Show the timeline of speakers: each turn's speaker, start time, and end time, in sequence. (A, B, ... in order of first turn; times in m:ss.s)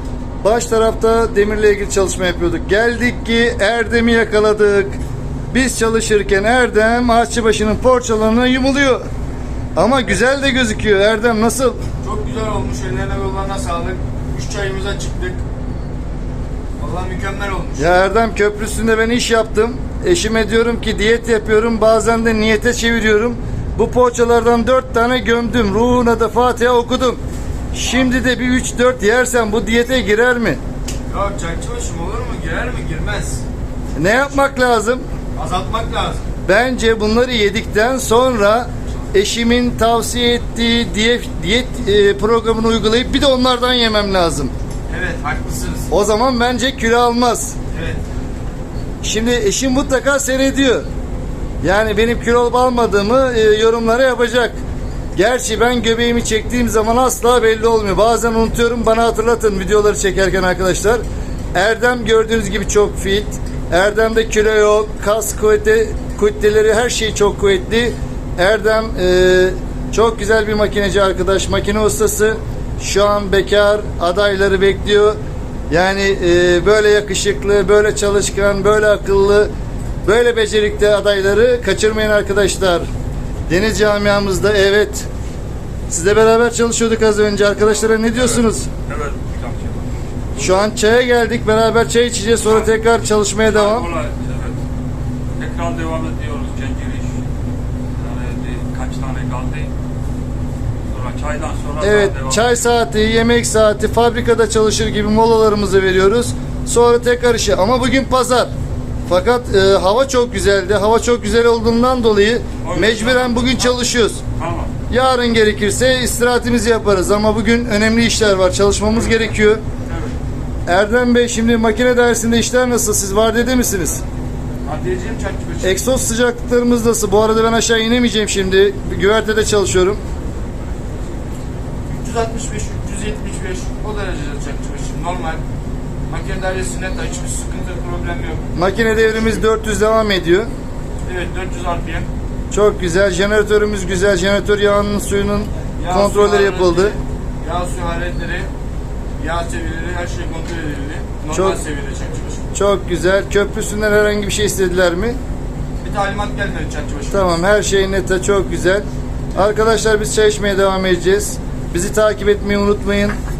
0:00.4-0:05.0 A
0:05.5-0:09.0 A
0:09.8-0:11.8 A
0:12.0-0:15.4 B
0:16.8-0:18.0 B
0:17.8-0:27.2 A
0:27.7-0:30.6 A
0:31.1-0:33.4 B
0:34.0-0:35.0 A
0:35.4-0:36.2 B
0:36.4-0:44.5 A
0:44.9-0:45.9 B
0:45.9-0:47.5 A
0:47.7-0:48.0 B
0:49.0-0:50.8 A
0:51.6-0:54.6 A
0:55.2-1:01.0 A
1:01.5-1:15.2 A
1:15.7-1:19.5 A
1:20.0-1:22.8 A
1:23.5-1:25.1 A
1:25.9-1:28.7 A
1:27.7-1:29.9 C
1:30.4-1:33.9 A
1:33.4-1:34.6 C
1:35.4-1:37.2 C
1:38.0-1:39.7 C
1:40.9-1:42.6 C
1:41.8-1:48.5 A
1:49.1-1:54.2 A
1:52.6-1:53.7 C
1:54.3-1:54.7 C
1:54.9-1:59.6 A
2:00.7-2:04.0 A
2:04.6-2:05.8 B
2:05.6-2:10.0 A
2:11.9-2:15.4 B
2:16.1-2:19.4 B
2:18.6-2:20.5 A
2:21.0-2:22.1 B
2:22.5-2:26.9 A
2:25.8-2:28.5 B
2:29.2-2:32.4 B
2:31.3-2:31.6 A
2:32.5-2:35.2 A
2:35.8-2:37.4 B
2:37.1-2:43.1 A